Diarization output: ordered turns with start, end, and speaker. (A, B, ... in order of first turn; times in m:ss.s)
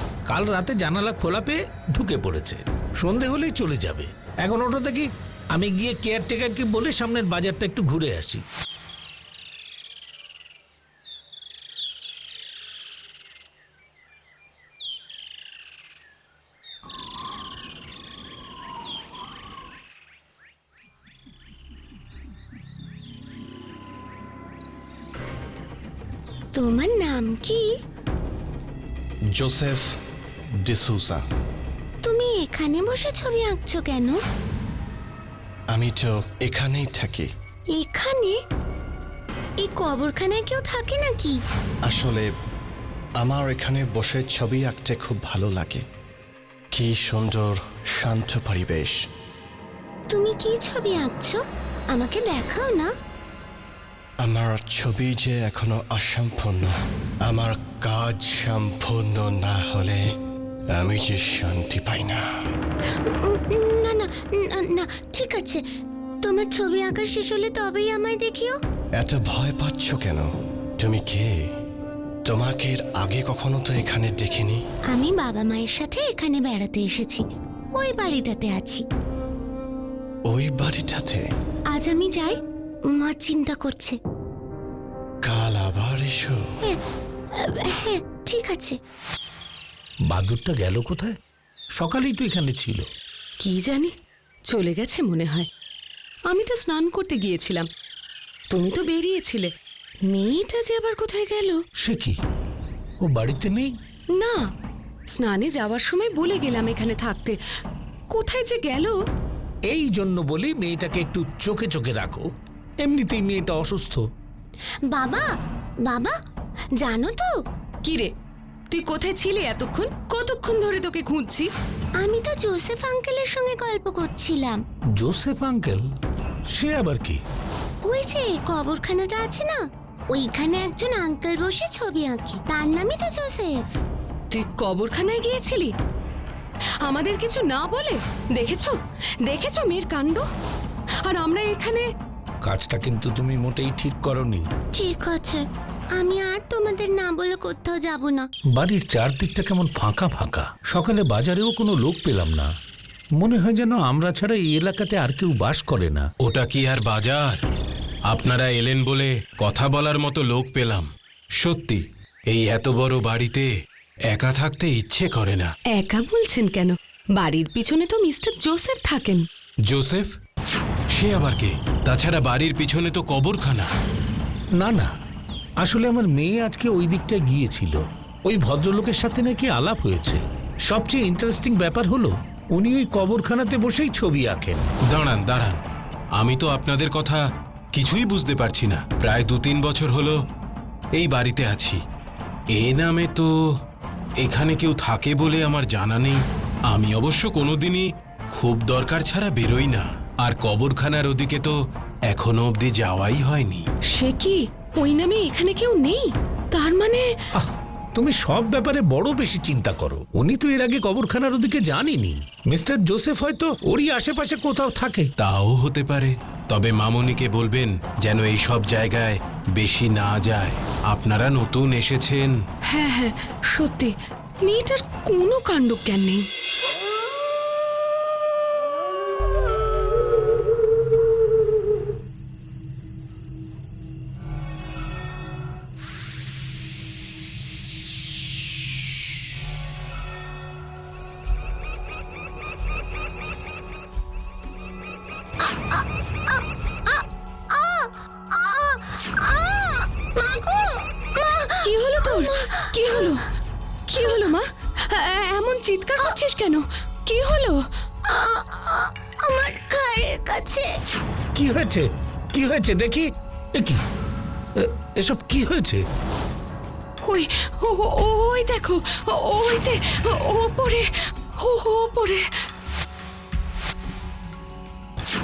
0:00.3-0:08.4 A
0:26.5-0:27.6 B
0:29.3-0:29.9 C
0:30.6-0:31.2 C
0:32.0-0:34.2 B
0:35.7-0:37.3 C
0:37.7-0:38.3 B
0:39.6-0:41.4 B
0:41.8-0:42.3 C
0:43.2-0:45.8 C
0:46.7-0:49.0 C
0:50.1-0:52.9 B
0:54.2-1:00.1 C
1:00.7-1:02.2 C
1:03.0-1:05.6 B
1:06.2-1:08.6 B
1:09.0-1:11.4 C
1:12.2-1:14.6 C
1:14.9-1:17.2 B
1:17.7-1:18.8 B
1:20.3-1:21.2 C
1:21.7-1:22.3 B
1:22.9-1:24.0 B
1:25.2-1:26.4 C
1:27.3-1:28.8 B
1:30.1-1:31.1 A
1:31.7-1:32.8 A
1:33.4-1:33.9 D
1:34.5-1:35.5 D
1:36.3-1:37.7 D
1:38.5-1:39.5 D
1:40.1-1:41.6 D
1:41.8-1:42.2 A
1:43.0-1:43.7 A
1:44.1-1:44.4 D
1:45.1-1:47.4 D
1:48.1-1:49.0 D
1:49.7-1:52.2 A
1:52.8-1:54.0 A
1:54.9-1:55.3 B
1:55.8-1:56.2 B
1:56.8-1:57.3 B
1:57.8-1:58.1 D
1:58.7-2:01.5 D
2:02.0-2:04.6 B
2:05.0-2:05.9 A
2:06.5-2:07.2 A
2:07.8-2:09.6 B
2:10.1-2:13.7 B
2:14.3-2:15.7 D
2:16.8-2:20.2 D
2:21.0-2:21.9 D
2:22.4-2:24.5 A
2:24.7-2:25.4 B
2:25.9-2:28.3 B
2:28.5-2:32.5 A
2:33.2-2:36.1 A
2:36.2-2:37.4 E
2:38.0-2:43.5 E
2:44.1-2:45.5 E
2:45.7-2:49.2 D
2:49.7-2:50.1 E
2:50.9-2:53.7 E
2:54.6-2:54.9 A
2:55.6-3:04.7 A
3:04.9-3:05.6 E
3:06.1-3:07.2 E
3:07.7-3:10.2 E
3:10.9-3:11.8 E
3:12.5-3:13.3 E
3:14.2-3:21.5 E
3:22.1-3:23.6 E
3:23.9-3:27.1 D
3:27.3-3:35.1 A
3:35.2-3:42.3 E
3:42.7-3:46.2 D
4:05.4-4:13.0 B
4:11.6-4:13.3 D
4:13.9-4:17.6 D
4:18.0-4:20.7 B
4:21.3-4:23.8 A
4:24.6-4:25.8 A
4:27.0-4:32.2 D